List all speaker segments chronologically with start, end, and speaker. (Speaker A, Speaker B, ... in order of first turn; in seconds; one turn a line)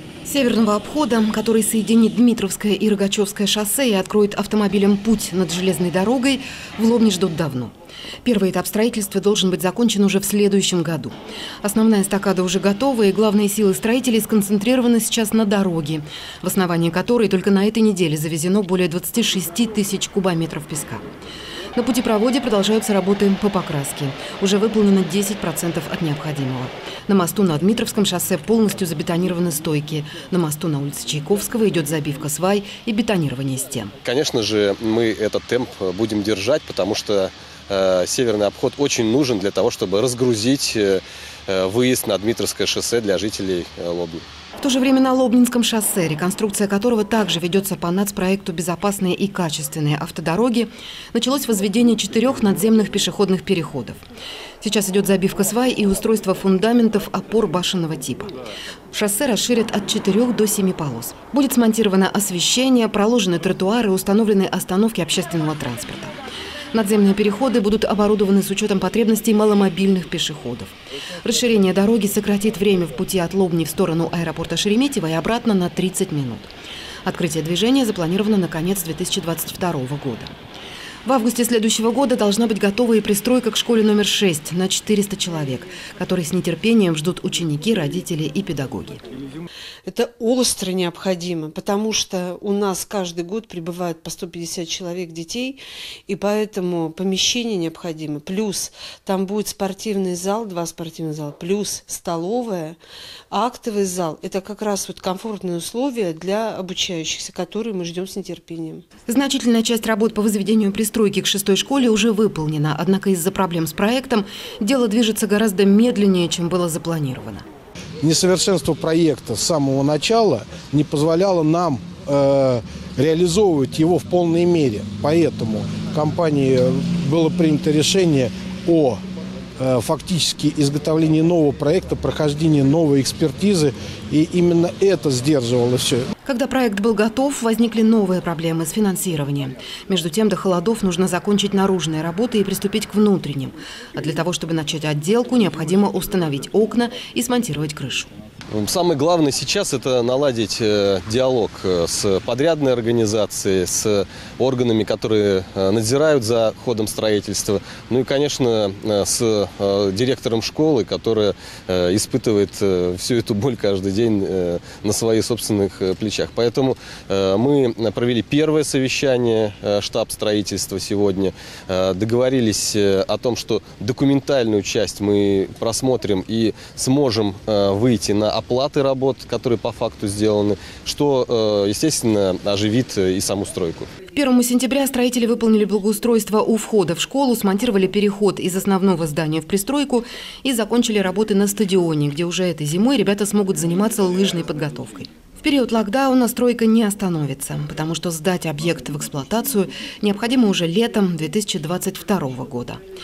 Speaker A: 0.3-7.7
Speaker A: 8.2-21.0
Speaker A: 21.8-33.9
Speaker B: 34.0-44.2
Speaker A: 44.6-54.0
Speaker A: 54.6-58.3
Speaker A: 58.9-66.2
Speaker A: 66.7-76.5
Speaker A: 77.1-80.3
Speaker A: 81.1-89.0
Speaker C: 89.9-102.8
Speaker C: 103.3-108.8
Speaker A: 109.1-117.4
Speaker D: 118.0-129.0
Speaker D: 129.6-136.1
Speaker A: 136.2-148.1
Speaker B: 148.5-183.9
Speaker A: 184.1-202.8